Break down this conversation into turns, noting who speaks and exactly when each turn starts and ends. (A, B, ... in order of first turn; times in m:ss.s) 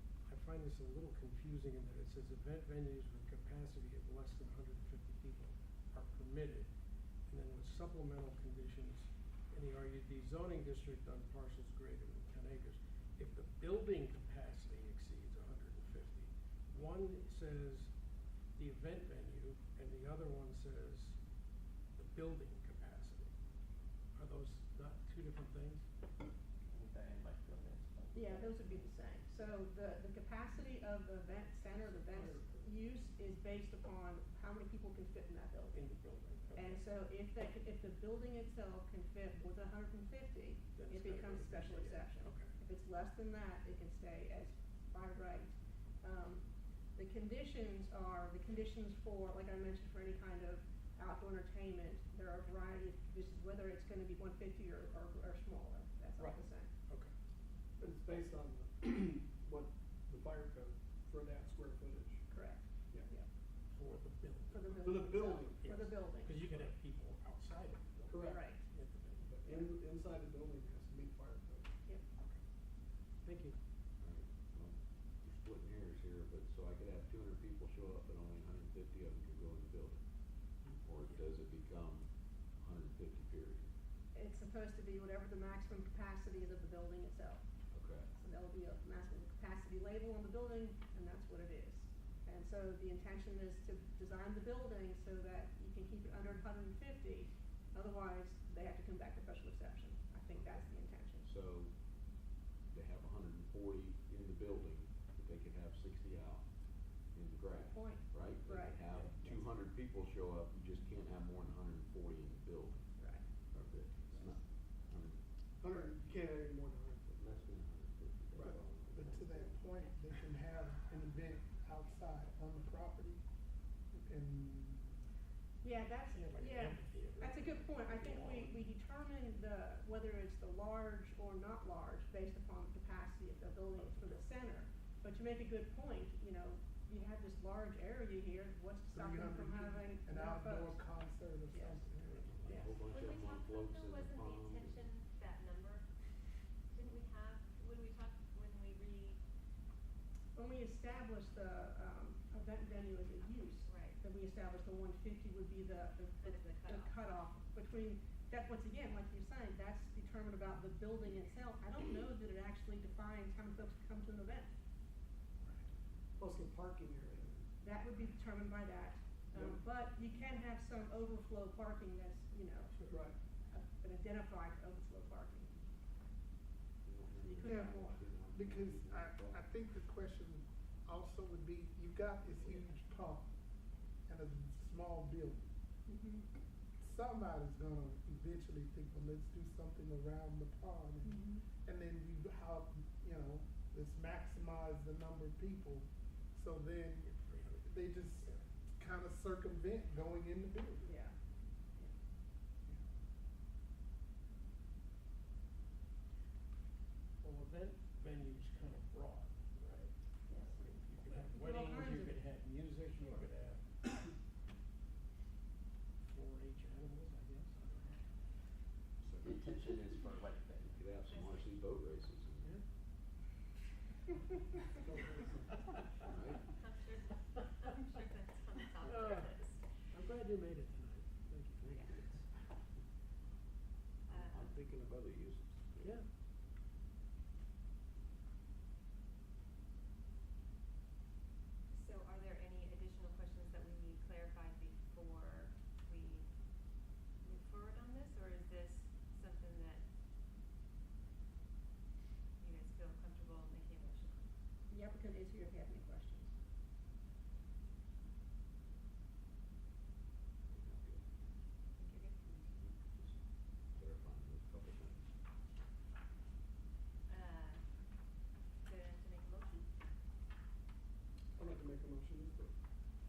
0:00.2-0:06.7 A
0:07.3-0:17.9 A
0:18.6-0:21.2 A
0:22.0-0:23.3 A
0:24.1-0:25.8 A
0:26.7-0:28.9 B
0:28.1-0:35.8 C
0:31.8-0:32.7 A
0:35.7-0:36.8 A
0:36.5-0:56.7 C
0:40.8-0:42.5 A
0:56.2-0:57.1 A
0:57.8-1:02.2 D
1:02.3-1:03.3 C
1:03.7-1:09.3 A
1:04.5-1:06.6 C
1:04.8-1:05.8 D
1:08.1-1:08.4 D
1:08.2-1:08.6 C
1:09.2-1:11.7 D
1:13.2-1:13.6 A
1:14.0-1:23.7 E
1:20.6-1:21.2 A
1:24.1-1:27.4 C
1:27.7-1:28.1 E
1:28.1-1:41.3 C
1:40.3-1:42.2 E
1:42.7-1:55.3 E
1:47.5-1:49.3 C
1:53.0-1:53.3 C
1:55.6-1:57.3 D
1:57.2-1:59.7 E
1:58.3-1:58.7 D
1:58.9-2:03.2 F
2:04.0-2:04.9 F
2:05.6-2:20.8 C
2:06.1-2:08.7 A
2:13.8-2:14.2 A
2:18.9-2:22.7 F
2:21.5-2:22.7 C
2:22.4-2:24.9 E
2:22.8-2:25.9 G
2:26.7-2:29.2 G
2:30.3-2:44.5 C
2:33.6-2:34.0 G
2:36.2-2:36.9 G
2:45.4-2:45.7 A
2:46.2-2:47.5 D
2:47.6-2:52.8 C
2:52.7-2:53.0 A
2:52.9-2:53.2 D
2:53.5-2:55.6 C
2:56.8-2:59.4 E
2:57.2-2:58.1 C
2:57.4-3:03.3 F
3:04.1-3:05.4 F
3:05.9-3:06.3 C
3:06.8-3:21.0 F
3:11.0-3:11.5 C
3:17.0-3:18.4 A
3:20.8-3:21.2 C
3:27.2-3:33.7 A
3:30.3-3:30.5 C
3:31.3-3:32.2 C
3:36.1-3:37.9 A
3:39.2-3:40.8 B
3:40.6-3:42.5 E
3:41.0-3:41.6 G
3:46.0-3:46.5 E
3:46.5-3:49.6 G
3:48.8-3:52.3 A
3:51.7-3:52.0 G
3:54.1-3:54.5 G
3:54.1-3:56.0 E
3:55.8-3:56.1 A
4:01.7-4:06.3 G
4:07.2-4:09.8 G
4:12.4-4:14.3 G
4:14.7-4:16.3 C
4:20.5-4:21.0 E
4:21.8-4:22.2 G
4:22.3-4:25.1 E
4:27.1-4:27.6 G
4:28.6-4:29.7 G
4:31.4-4:32.5 D